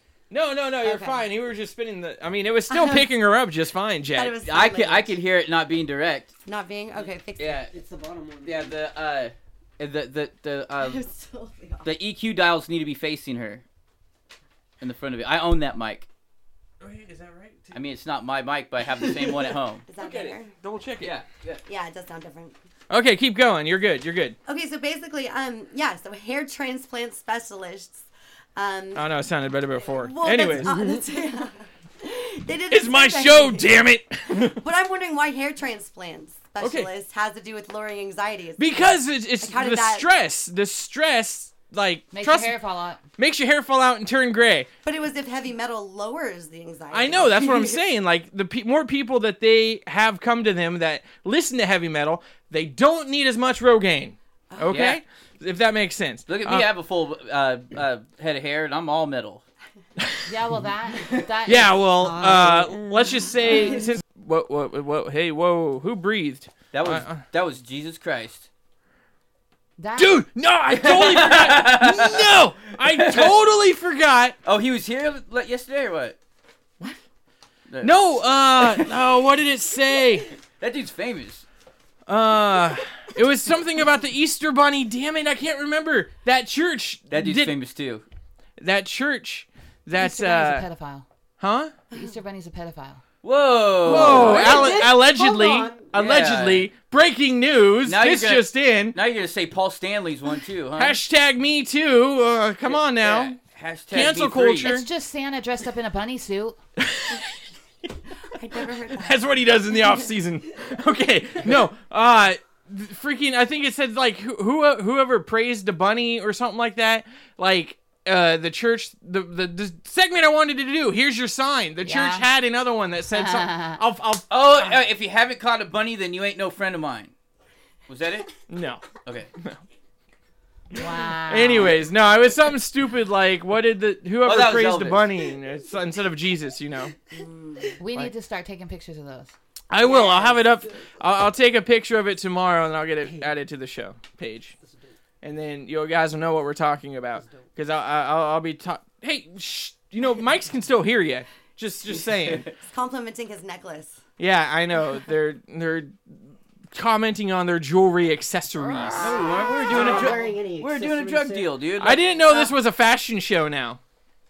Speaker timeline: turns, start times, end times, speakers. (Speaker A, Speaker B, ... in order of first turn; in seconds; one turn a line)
Speaker A: 0.3-4.4
Speaker B: 0.8-1.2
Speaker B: 2.7-3.1
Speaker B: 4.1-5.2
Speaker C: 4.5-6.3
Speaker B: 6.5-7.7
Speaker C: 7.4-7.7
Speaker D: 7.7-8.8
Speaker C: 8.4-11.0
Speaker B: 10.8-11.9
Speaker C: 11.8-13.6
Speaker C: 14.8-16.1
Speaker A: 16.8-17.8
Speaker C: 17.7-20.4
Speaker B: 19.9-20.5
Speaker A: 20.6-21.2
Speaker C: 21.0-21.6
Speaker B: 21.7-22.6
Speaker A: 22.9-24.4
Speaker B: 24.5-29.1
Speaker A: 28.9-31.0
Speaker B: 29.9-33.7
Speaker A: 32.7-34.6
Speaker B: 34.4-40.1
Speaker A: 36.6-36.9
Speaker A: 38.6-42.6
Speaker E: 42.1-43.0
Speaker A: 43.2-44.7
Speaker B: 44.8-47.8
Speaker A: 46.9-56.7
Speaker B: 54.5-54.8
Speaker C: 54.7-55.0
Speaker C: 56.3-59.4
Speaker E: 60.3-62.1
Speaker A: 61.5-67.2
Speaker D: 62.0-63.8
Speaker C: 66.7-68.5
Speaker E: 69.8-70.2
Speaker A: 70.0-74.4
Speaker C: 70.7-72.2
Speaker C: 72.8-73.3
Speaker C: 74.5-76.2
Speaker C: 77.7-78.9
Speaker A: 77.8-80.3
Speaker C: 80.6-81.5
Speaker A: 82.1-87.6
Speaker C: 87.1-88.0
Speaker A: 88.6-90.7
Speaker E: 90.0-91.1
Speaker A: 91.4-91.7
Speaker E: 91.9-93.0
Speaker C: 93.2-94.8
Speaker A: 93.8-99.0
Speaker D: 93.9-95.9
Speaker C: 95.9-96.7
Speaker C: 97.8-101.0
Speaker A: 100.8-103.4
Speaker C: 102.7-104.7
Speaker A: 103.9-104.9
Speaker E: 104.6-106.6
Speaker A: 106.8-107.4
Speaker B: 108.3-109.2
Speaker A: 108.9-124.8
Speaker E: 121.8-122.3
Speaker E: 123.1-123.8
Speaker C: 124.3-127.1
Speaker C: 127.9-128.3
Speaker A: 128.5-128.9
Speaker C: 129.0-129.3
Speaker E: 130.7-131.8
Speaker A: 130.8-136.9
Speaker C: 134.2-135.1
Speaker B: 137.1-137.7
Speaker E: 137.8-139.3
Speaker A: 139.7-144.6
Speaker B: 139.9-140.3
Speaker A: 145.2-152.5
Speaker B: 152.6-154.0
Speaker A: 154.2-160.1
Speaker B: 158.8-159.4
Speaker C: 159.0-162.0
Speaker D: 159.2-161.6
Speaker A: 161.8-163.8